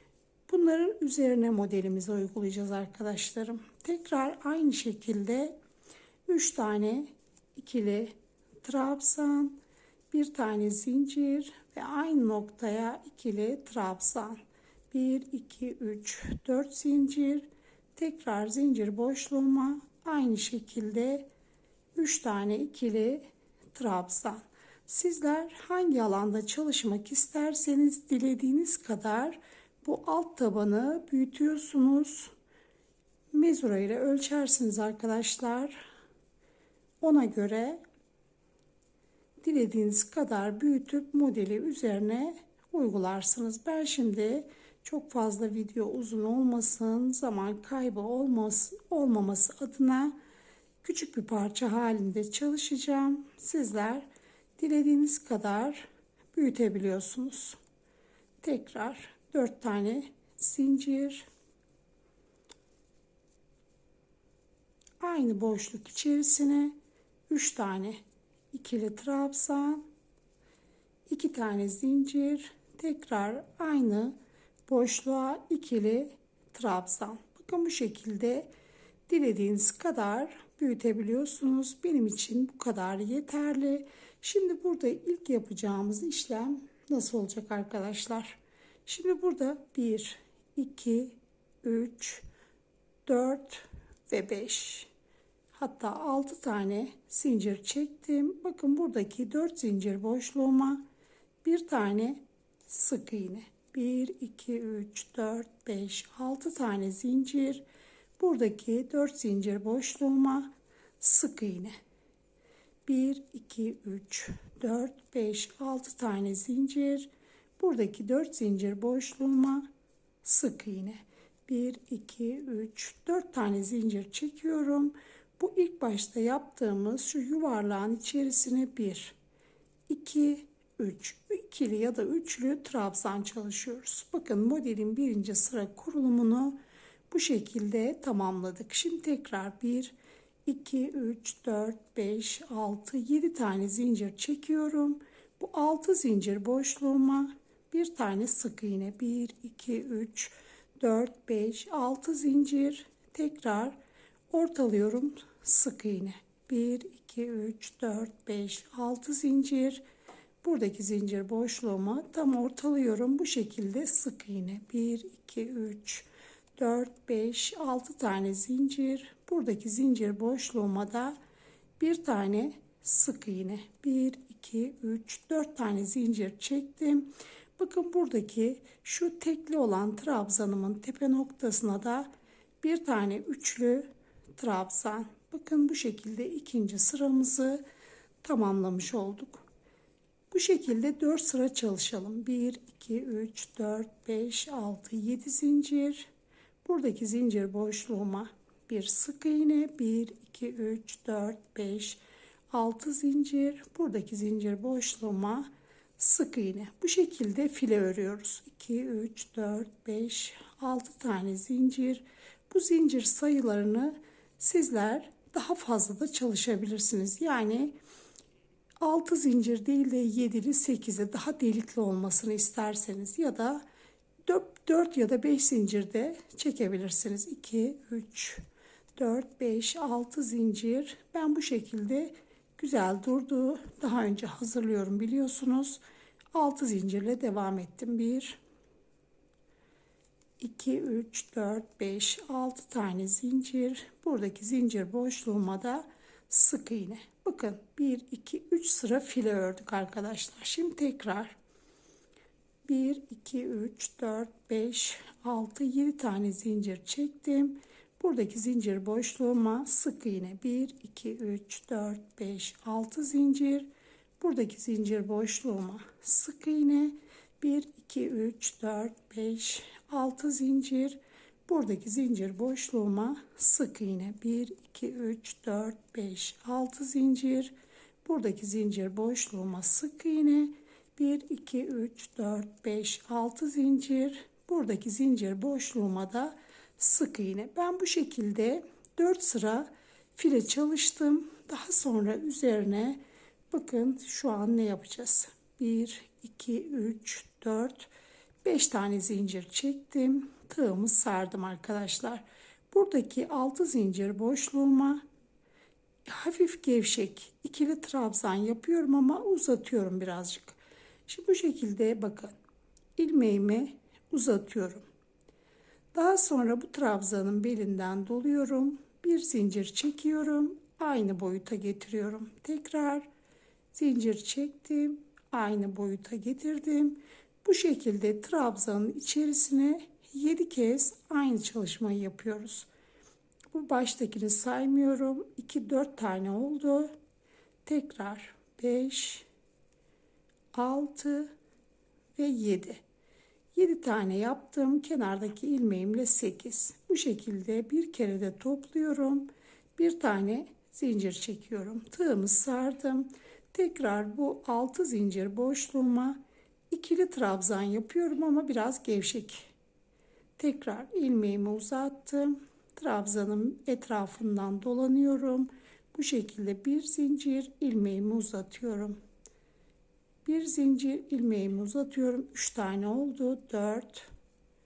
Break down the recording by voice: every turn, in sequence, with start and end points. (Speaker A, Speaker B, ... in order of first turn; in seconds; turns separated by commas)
Speaker A: 0.5-5.5, Speaker A: 6.3-9.6, Speaker A: 10.1-14.4, Speaker A: 14.9-21.2, Speaker A: 21.9-32.3, Speaker A: 33.3-35.8, Speaker A: 37.0-37.8, Speaker A: 39.4-50.1, Speaker A: 50.8-54.1, Speaker A: 54.6-57.6, Speaker A: 58.4-61.2, Speaker A: 65.0-66.7, Speaker A: 67.3-68.0, Speaker A: 68.5-69.8, Speaker A: 71.1-74.2, Speaker A: 74.7-78.5, Speaker A: 79.1-92.2, Speaker A: 93.0-94.9, Speaker A: 95.5-100.8, Speaker A: 101.4-107.6, Speaker A: 108.2-111.7, Speaker A: 112.8-119.7, Speaker A: 120.2-129.2, Speaker A: 129.9-136.6, Speaker A: 137.1-139.9, Speaker A: 140.4-153.8, Speaker A: 154.3-159.8, Speaker A: 160.4-171.2, Speaker A: 171.8-182.1, Speaker A: 182.6-187.6, Speaker A: 188.2-189.4, Speaker A: 190.3-196.1, Speaker A: 196.6-202.0, Speaker A: 202.5-217.7, Speaker A: 218.8-223.6, Speaker A: 224.2-228.4, Speaker A: 228.9-235.8, Speaker A: 236.3-238.4, Speaker A: 240.4-251.3, Speaker A: 252.7-263.7, Speaker A: 264.2-293.0, Speaker A: 293.5-297.9, Speaker A: 298.4-305.0, Speaker A: 306.1-312.3, Speaker A: 312.9-314.8, Speaker A: 315.9-323.1, Speaker A: 323.7-332.7, Speaker A: 333.5-336.9, Speaker A: 337.6-339.2, Speaker A: 340.5-341.3, Speaker A: 342.1-342.8, Speaker A: 343.5-356.2, Speaker A: 356.7-359.5, Speaker A: 360.4-369.0, Speaker A: 370.2-374.1